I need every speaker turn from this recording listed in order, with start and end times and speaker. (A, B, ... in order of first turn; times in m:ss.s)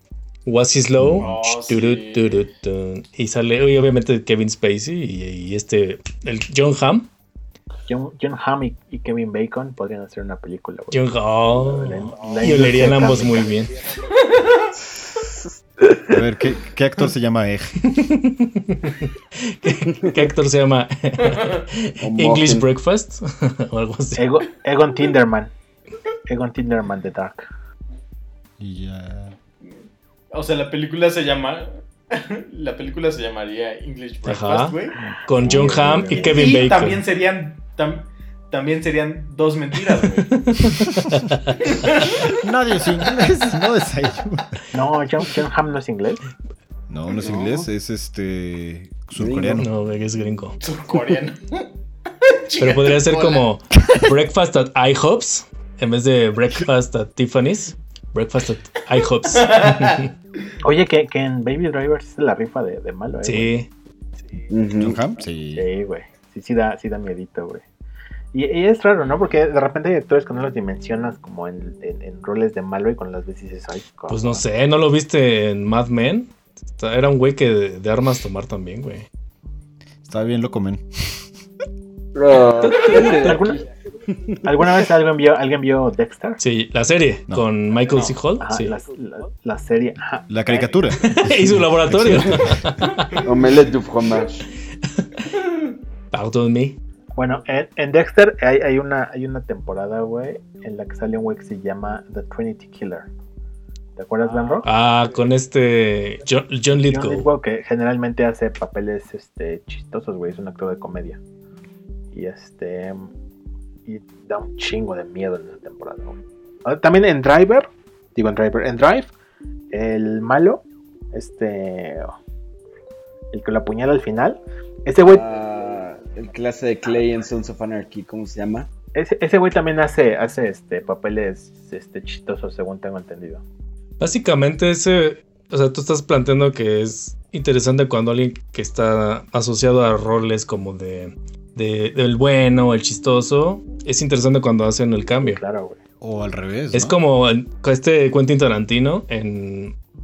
0:00.5-0:07.1 A
0:01.0-0:01.3 B
0:01.2-0:02.5 C
0:07.9-0:13.5 D
0:10.9-0:13.7 A
0:14.1-0:14.7 C
0:15.2-0:16.1 E
0:16.1-0:17.9 B
0:17.8-0:24.3 A
0:21.2-0:21.6 C
0:22.0-0:22.7 E
0:24.2-0:25.5 D
0:26.3-0:27.4 D
0:28.6-0:29.4 B
0:29.6-0:35.0 C
0:34.2-0:37.0 A
0:35.3-0:36.6 D
0:36.2-0:40.4 C
0:40.3-0:41.6 A
0:40.9-0:41.3 B
0:41.6-0:42.3 C
0:42.0-0:44.6 B
0:44.7-0:46.2 D
0:46.9-0:49.7 B
0:47.2-0:47.7 E
0:49.2-0:49.6 E
0:49.6-0:50.6 A
0:50.6-0:51.7 C
0:52.2-0:53.4 C
0:52.6-1:00.1 A
0:59.3-1:00.1 C
1:00.6-1:03.5 D
1:03.2-1:03.7 A
1:04.5-1:05.0 E
1:04.8-1:05.7 B
1:05.6-1:07.6 D
1:08.3-1:14.4 D
1:14.1-1:19.1 A
1:20.0-1:21.3 B
1:22.1-1:23.6 E
1:22.6-1:23.4 A
1:23.0-1:23.6 D
1:24.4-1:26.4 D
1:26.4-1:28.8 A
1:27.9-1:28.2 C
1:28.4-1:30.9 D
1:30.3-1:32.7 B
1:31.0-1:33.2 A
1:33.2-1:34.5 E
1:36.1-1:36.8 A
1:37.2-1:43.1 D
1:44.0-1:44.7 D
1:44.6-1:47.3 A
1:46.9-1:51.2 D
1:52.1-1:53.1 D
1:53.9-1:59.1 D
1:59.7-2:02.1 D
2:03.3-2:05.2 D
2:05.0-2:08.7 E
2:09.0-2:13.4 D
2:14.0-2:25.4 A
2:25.2-2:25.8 D
2:26.0-2:27.0 B
2:26.7-2:29.8 A